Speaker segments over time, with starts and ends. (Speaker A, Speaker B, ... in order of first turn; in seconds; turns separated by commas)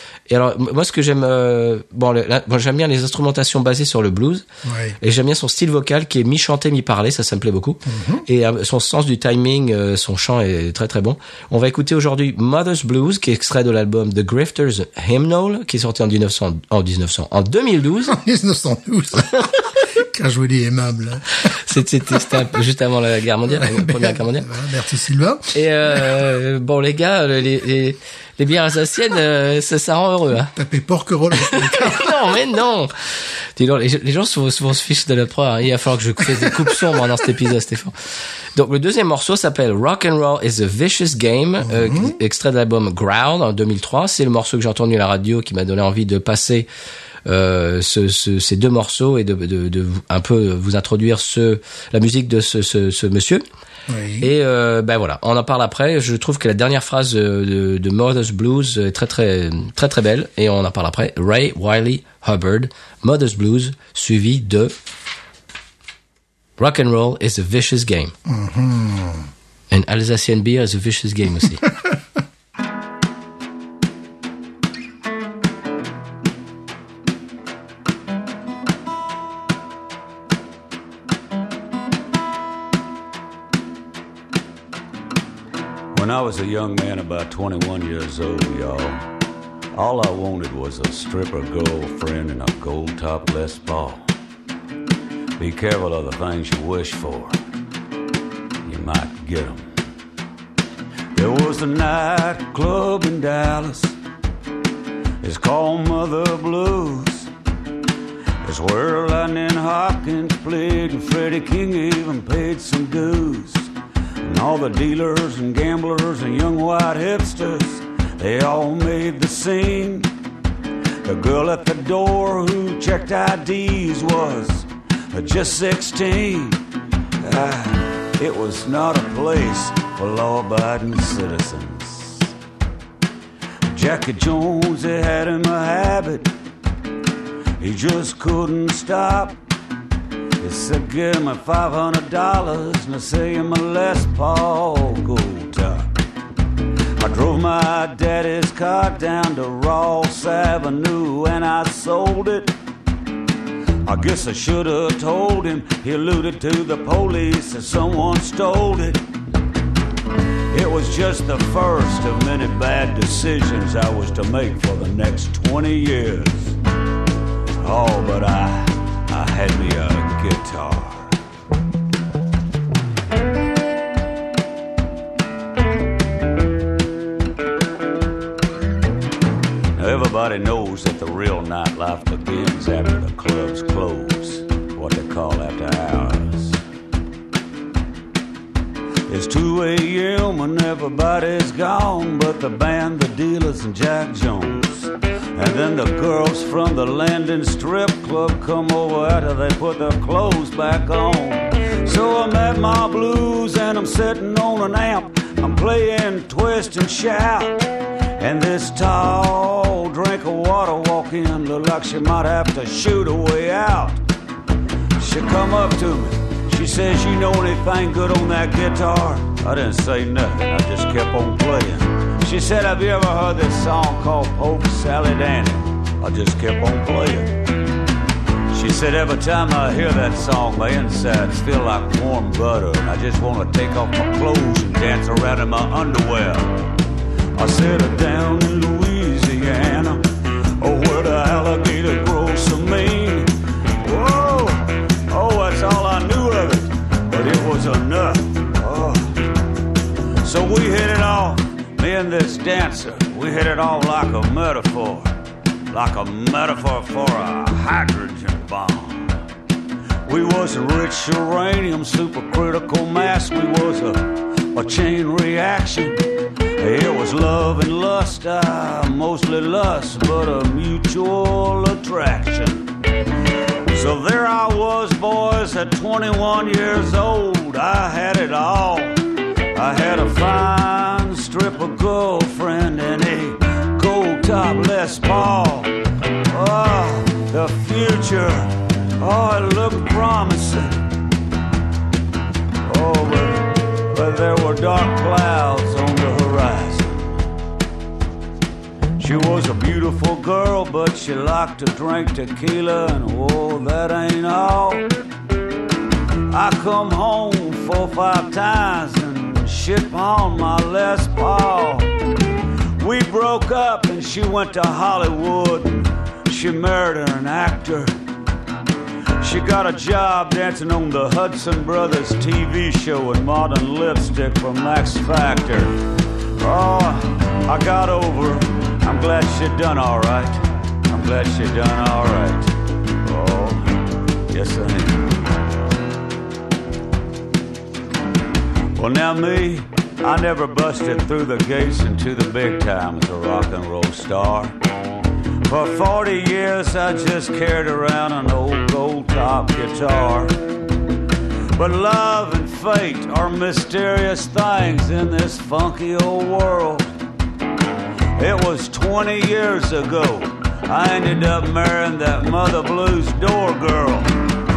Speaker A: 0.3-4.5, Speaker B: 4.6-5.0, Speaker A: 5.0-18.2, Speaker B: 7.9-8.2, Speaker B: 18.1-21.3, Speaker A: 21.4-24.5, Speaker B: 23.5-25.5, Speaker A: 25.5-30.5, Speaker B: 30.6-32.2, Speaker A: 31.4-32.9, Speaker A: 33.6-37.9, Speaker A: 38.5-46.7, Speaker B: 41.6-42.2, Speaker A: 47.3-53.4, Speaker B: 53.9-54.3, Speaker A: 54.2-64.7, Speaker A: 66.6-68.1, Speaker B: 68.3-69.3, Speaker A: 69.7-71.6, Speaker C: 85.9-89.1, Speaker C: 89.7-94.0, Speaker C: 95.4-97.4, Speaker C: 98.7-99.7, Speaker C: 101.1-104.0, Speaker C: 105.2-107.3, Speaker C: 108.4-113.7, Speaker C: 114.2-120.1, Speaker C: 121.0-126.6, Speaker C: 127.2-132.3, Speaker C: 133.7-136.3, Speaker C: 137.6-139.4, Speaker C: 140.4-145.9, Speaker C: 147.0-152.5, Speaker C: 153.8-159.0, Speaker C: 160.5-166.6, Speaker C: 167.6-171.1, Speaker C: 179.8-186.6, Speaker C: 189.1-214.0, Speaker C: 215.0-227.4, Speaker C: 228.5-236.7, Speaker C: 237.3-240.1, Speaker C: 240.6-249.2, Speaker C: 250.2-255.1, Speaker C: 255.7-259.2, Speaker C: 260.1-266.0, Speaker C: 266.6-272.7, Speaker C: 273.7-279.0, Speaker C: 279.6-285.7, Speaker C: 286.3-290.9, Speaker C: 292.6-297.1, Speaker C: 299.0-304.9, Speaker C: 306.3-311.9, Speaker C: 312.8-317.9, Speaker C: 319.2-325.7, Speaker C: 326.4-335.5, Speaker C: 338.8-344.6, Speaker C: 345.4-350.4, Speaker C: 351.6-356.9, Speaker C: 358.2-364.2